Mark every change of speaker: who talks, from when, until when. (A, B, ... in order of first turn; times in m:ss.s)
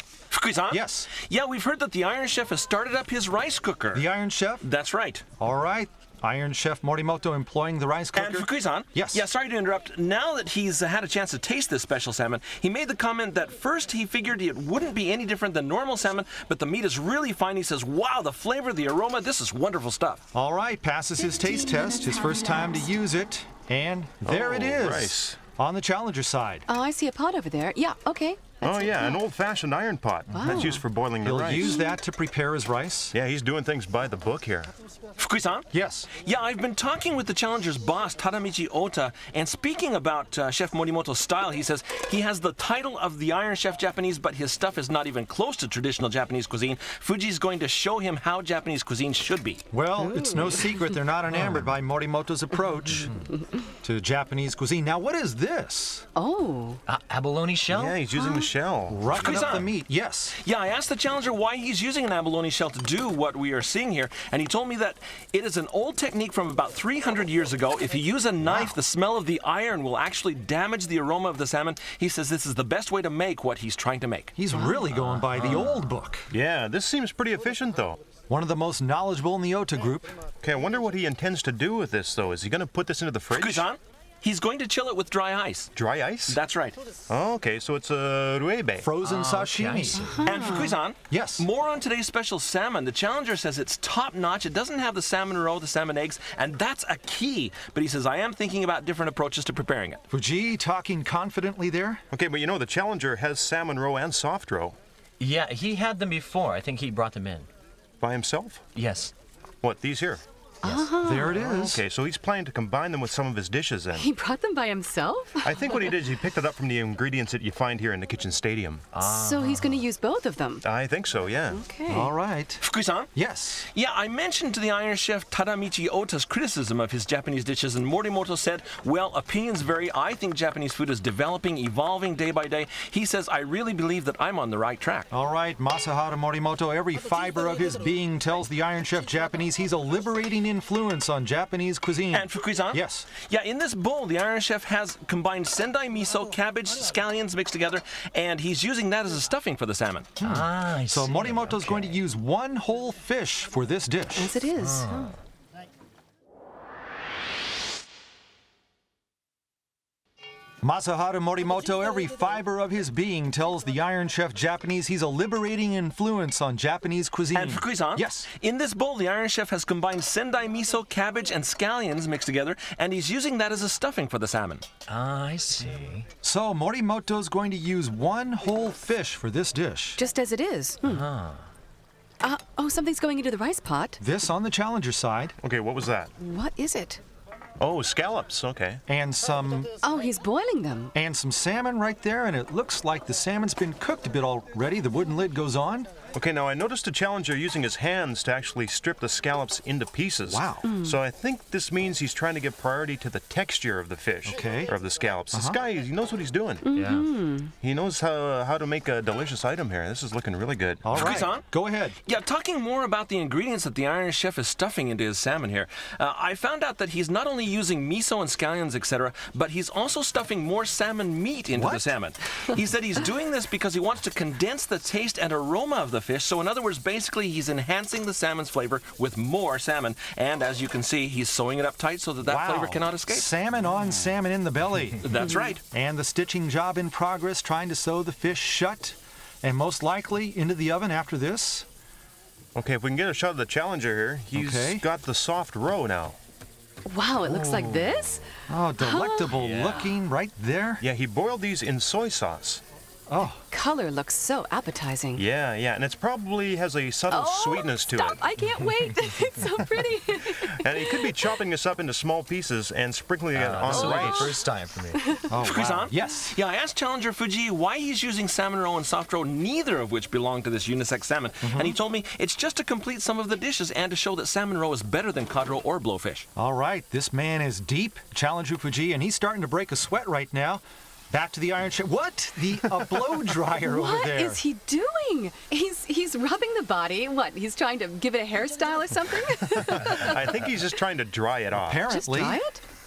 0:00.3-0:04.1 A
0:00.7-0:01.1 B
0:03.9-0:04.6 B
0:04.6-0:05.2 A
0:05.4-0:09.2 B
0:08.1-0:20.2 A
0:20.3-0:26.6 B
0:21.7-0:22.3 C
0:24.2-0:25.4 D
0:26.7-0:29.2 C
0:28.6-0:31.8 D
0:30.3-0:30.8 C
0:31.2-0:33.1 B
0:33.1-0:34.7 D
0:35.2-0:49.6 A
0:35.7-0:36.1 B
0:49.7-0:53.2 B
0:50.0-0:51.0 C
0:51.3-0:51.6 E
0:53.8-0:56.1 B
0:56.1-0:56.8 C
0:56.9-0:58.0 E
0:57.7-0:59.6 D
0:58.1-0:58.5 C
0:58.9-1:00.4 B
0:59.1-0:59.7 A
1:00.4-1:14.3 A
1:08.4-1:08.7 B
1:14.4-1:16.3 B
1:14.5-1:14.8 C
1:14.9-1:15.9 E
1:16.3-1:18.0 D
1:18.3-1:20.2 B
1:20.4-1:23.7 D
1:23.3-1:25.7 A
1:25.7-1:26.4 D
1:26.3-1:26.8 A
1:27.1-1:28.9 D
1:28.8-1:30.2 B
1:29.0-1:30.2 E
1:30.0-1:30.8 C
1:30.2-1:40.0 A
1:31.0-1:31.4 B
1:40.1-1:42.0 B
1:42.1-1:44.8 D
1:45.2-1:47.5 E
1:48.0-1:48.6 D
1:48.7-1:49.1 E
1:49.6-1:50.2 D
1:50.6-1:50.9 E
1:50.6-1:51.7 C
1:50.9-1:51.8 B
1:51.2-1:54.1 D
1:53.9-1:56.0 C
1:55.4-1:58.8 D
1:58.9-1:59.8 E
1:59.0-2:00.6 C
2:00.6-2:01.6 D
2:01.5-2:02.1 C
2:01.9-2:02.6 B
2:02.6-2:03.1 A
2:03.1-2:03.6 B
2:03.7-2:15.1 A
2:15.1-2:23.1 B
2:22.1-2:30.1 A
2:30.2-2:32.0 E
2:30.2-2:34.4 B
2:34.2-2:35.2 C
2:34.6-2:35.2 E
2:40.6-2:48.3 B
2:47.3-2:54.6 A
2:54.9-2:56.1 E
2:56.2-3:00.0 B
3:00.0-3:01.0 C
3:00.8-3:01.5 E
3:02.2-3:04.0 C
3:04.0-3:05.3 B
3:05.4-3:06.1 D
3:06.2-3:07.0 C
3:07.6-3:08.8 D
3:08.9-3:09.7 B
3:09.8-3:10.9 C
3:10.9-3:15.9 B
3:16.1-3:26.6 D
3:20.3-3:20.6 B
3:20.6-3:21.0 C
3:24.2-3:24.7 B
3:25.3-3:25.6 B
3:26.6-3:27.5 C
3:26.7-3:27.1 E
3:27.6-3:31.2 D
3:30.8-3:32.0 B
3:30.9-3:31.4 A
3:32.0-3:53.3 A
3:41.5-3:41.9 B
3:52.2-3:55.1 B
3:55.0-3:55.6 A
3:55.7-4:01.7 B
4:02.5-4:06.2 D
4:04.3-4:04.8 B
4:06.9-4:08.2 C
4:08.5-4:10.8 B
4:08.8-4:09.6 C
4:10.8-4:12.6 D
4:13.1-4:13.4 B
4:13.5-4:15.2 C
4:15.2-4:18.2 D
4:17.1-4:21.3 C
4:20.4-4:24.4 D
4:23.3-4:25.1 E
4:23.6-4:25.2 C
4:25.3-4:26.3 B
4:25.4-4:36.3 A
4:31.4-4:31.8 B
4:36.4-4:44.4 B
4:43.6-4:50.4 C
4:49.7-4:51.8 D
4:51.6-4:52.4 B
4:51.9-4:52.6 C